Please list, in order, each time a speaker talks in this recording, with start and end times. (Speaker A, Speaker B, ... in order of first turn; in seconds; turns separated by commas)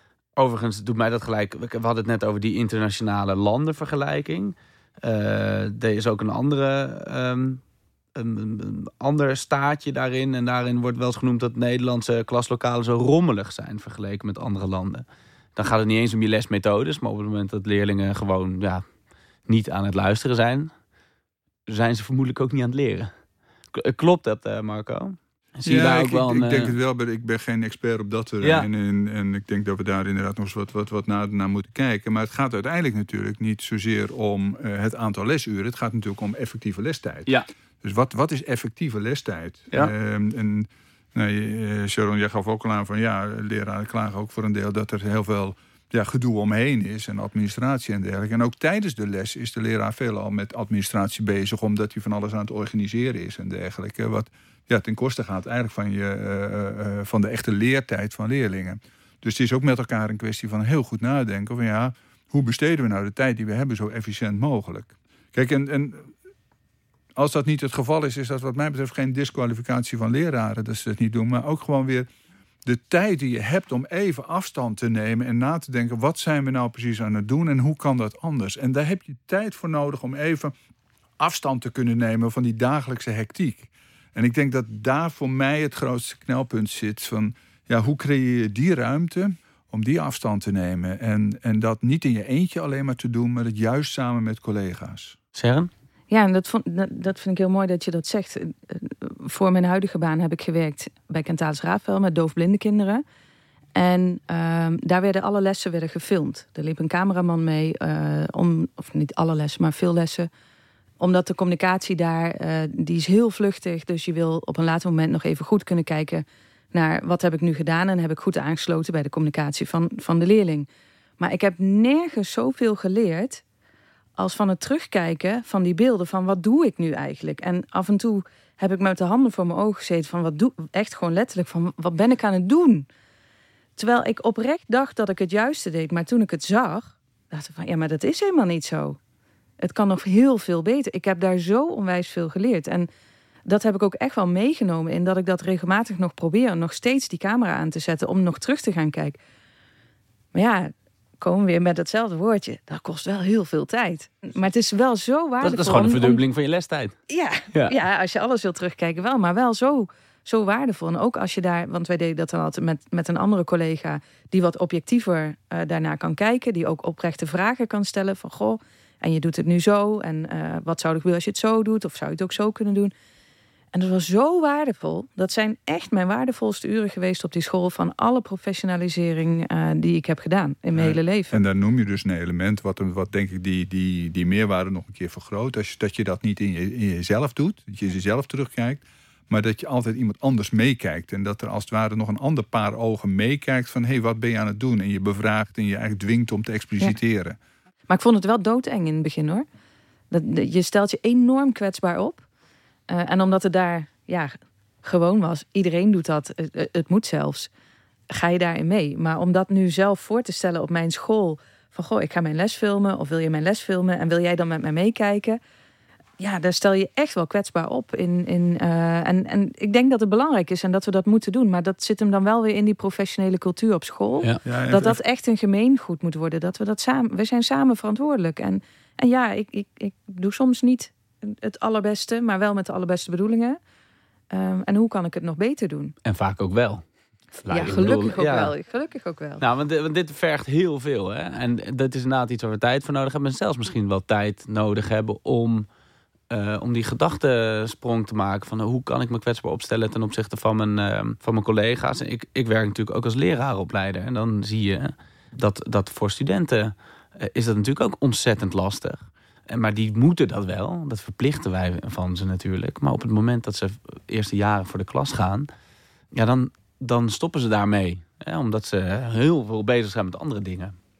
Speaker A: 0.4-7.6, Speaker A: 8.1-15.0, Speaker A: 15.6-18.8, Speaker A: 19.5-20.7, Speaker A: 21.7-23.1, Speaker A: 23.7-26.8, Speaker B: 25.6-37.3, Speaker A: 28.4-28.7, Speaker B: 37.8-66.1, Speaker B: 67.2-72.1, Speaker B: 72.6-80.5, Speaker B: 81.2-95.2, Speaker A: 95.3-95.7, Speaker C: 96.1-103.0, Speaker C: 103.7-110.3, Speaker C: 111.0-120.7, Speaker C: 121.2-123.4, Speaker C: 124.2-132.9, Speaker C: 133.8-139.0, Speaker C: 139.6-142.9, Speaker C: 143.4-149.2, Speaker C: 150.3-156.2, Speaker A: 155.4-157.0, Speaker C: 157.1-172.9, Speaker C: 173.7-181.4, Speaker B: 180.8-197.4, Speaker C: 197.9-199.4, Speaker C: 200.1-202.2, Speaker C: 202.9-207.5, Speaker C: 208.1-215.4, Speaker C: 216.2-233.6, Speaker B: 224.4-225.0, Speaker C: 234.3-235.9, Speaker A: 236.0-236.8, Speaker A: 237.4-238.5, Speaker C: 237.5-239.4, Speaker A: 239.4-245.7, Speaker A: 246.3-265.5, Speaker A: 266.1-270.8